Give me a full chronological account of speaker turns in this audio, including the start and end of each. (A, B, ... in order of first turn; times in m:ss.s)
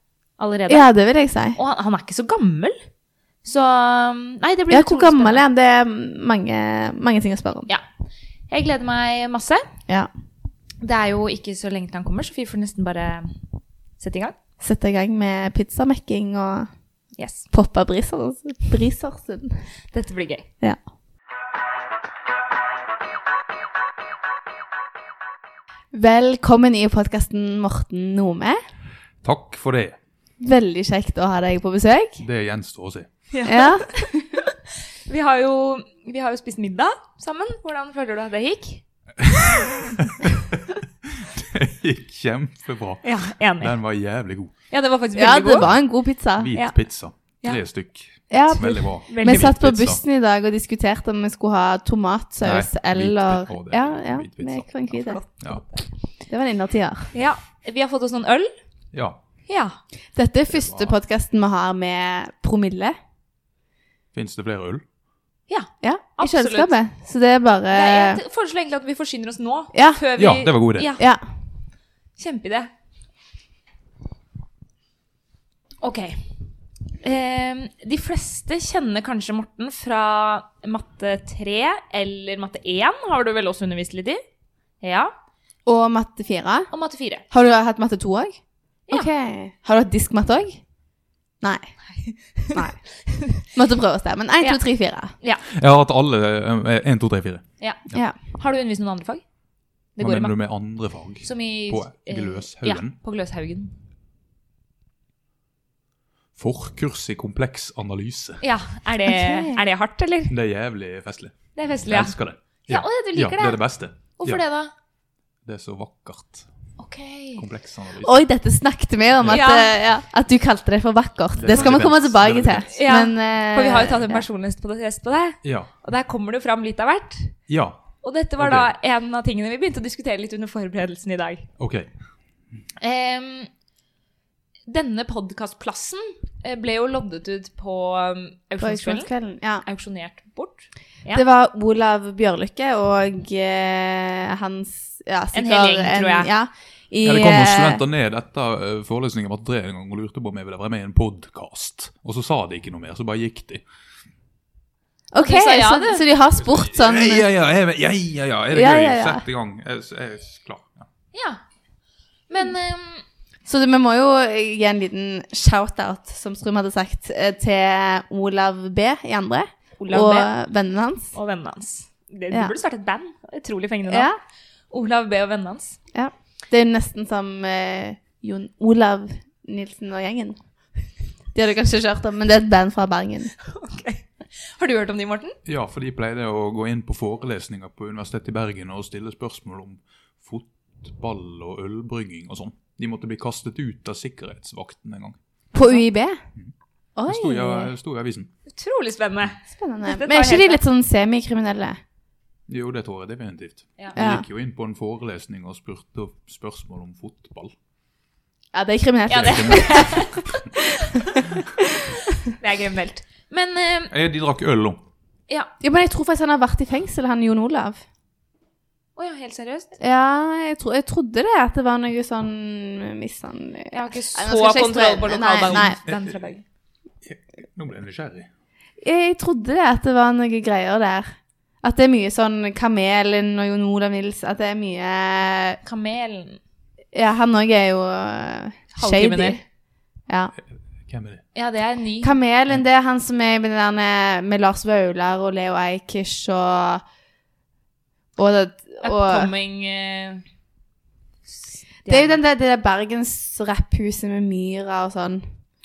0:00.4-0:00.9 A
0:00.7-0:01.6 B
0:01.6-0:02.8 A
0:03.4-0:05.4 A
0:04.7-0:07.7 B
0:08.5-0:09.6 A
0:10.8-0:13.3 A
0:14.0-0:14.4 A
0:14.6-0:16.7 B
0:17.2-0:17.5 A
0:17.5-0:19.6 B
0:19.9-0:20.5 A
0:25.9-0:28.6 B
0:29.2-0:30.0 C
0:30.4-0:32.2 B
0:32.2-0:33.1 C
0:33.3-0:34.1 A
0:33.5-0:34.1 B
0:35.1-0:38.8 A
0:39.2-0:40.4 C
0:41.2-0:44.5 C
0:43.0-0:43.8 A
0:44.7-0:45.7 A
0:45.2-0:46.5 B
0:46.4-0:50.0 C
0:46.5-0:47.6 A
0:48.3-0:55.2 B
0:49.1-0:49.6 A
0:52.4-0:55.6 C
0:55.0-0:55.8 A
0:56.3-0:57.1 B
0:57.1-0:58.5 A
0:58.9-0:59.2 C
0:59.5-0:59.8 A
1:00.2-1:03.0 B
1:00.5-1:00.9 C
1:04.1-1:04.8 C
1:05.5-1:06.7 A
1:05.8-1:08.2 B
1:07.7-1:11.1 A
1:09.7-1:10.0 B
1:10.2-1:10.9 C
1:12.2-1:12.7 A
1:15.8-1:16.2 A
1:17.0-1:24.2 A
1:24.8-1:25.1 A
1:25.7-1:26.7 B
1:26.7-1:27.3 A
1:27.3-1:30.6 B
1:31.4-1:31.7 B
1:31.9-1:33.4 A
1:32.5-1:32.8 B
1:33.4-1:35.1 B
1:35.5-1:38.0 C
1:37.6-1:39.2 A
1:40.0-1:40.4 A
1:40.0-1:43.0 C
1:41.2-1:43.7 A
1:46.4-1:48.4 C
1:48.4-1:50.3 A
1:49.0-1:49.6 B
1:50.3-1:54.4 C
1:51.6-1:54.7 A
1:55.5-1:56.5 C
1:56.8-1:57.4 A
1:57.4-1:58.2 C
1:58.0-2:04.2 B
1:59.3-1:59.8 A
2:01.4-2:02.7 C
2:02.7-2:07.4 A
2:05.4-2:05.7 C
2:07.5-2:07.8 C
2:08.0-2:11.5 A
2:08.4-2:08.7 C
2:11.6-2:11.9 C
2:12.8-2:13.5 A
2:14.7-2:19.1 A
2:18.6-2:19.6 B
2:19.6-2:21.2 A
2:21.1-2:27.8 B
2:25.3-2:26.3 A
2:27.0-2:33.6 C
2:35.1-2:37.3 B
2:35.2-2:36.0 A
2:36.5-2:40.9 C
2:38.5-2:39.2 B
2:41.1-2:41.4 A
2:42.3-2:43.0 A
2:43.4-2:51.1 B
2:49.8-2:50.3 A
2:51.1-2:54.1 A
2:53.9-2:54.2 B
2:54.7-2:55.8 A
2:55.9-3:00.4 B
3:01.3-3:03.3 B
3:03.4-3:05.4 A
3:05.5-3:15.2 C
3:15.5-3:16.2 B
3:17.0-3:17.7 B
3:17.1-3:18.3 C
3:18.5-3:20.6 A
3:19.5-3:21.8 B
3:22.5-3:27.5 C
3:24.0-3:24.2 B
3:28.5-3:30.1 B
3:29.1-3:31.3 A
3:29.2-3:30.2 C
3:31.1-3:31.6 B
3:32.2-3:33.9 A
3:33.9-3:34.8 C
3:35.6-3:37.8 B
3:39.0-3:39.8 A
3:39.8-3:45.8 B
3:43.7-3:46.4 A
3:45.5-3:46.1 C
3:47.1-3:48.3 C
3:48.8-3:55.6 B
3:55.6-3:56.4 A
3:56.9-3:59.4 B
3:58.8-3:59.4 A
4:00.1-4:00.3 B
4:00.9-4:01.2 C
4:01.4-4:02.1 A
4:02.0-4:06.8 B
4:08.2-4:09.3 B
4:08.8-4:10.2 A
4:11.3-4:12.2 A
4:11.9-4:15.3 B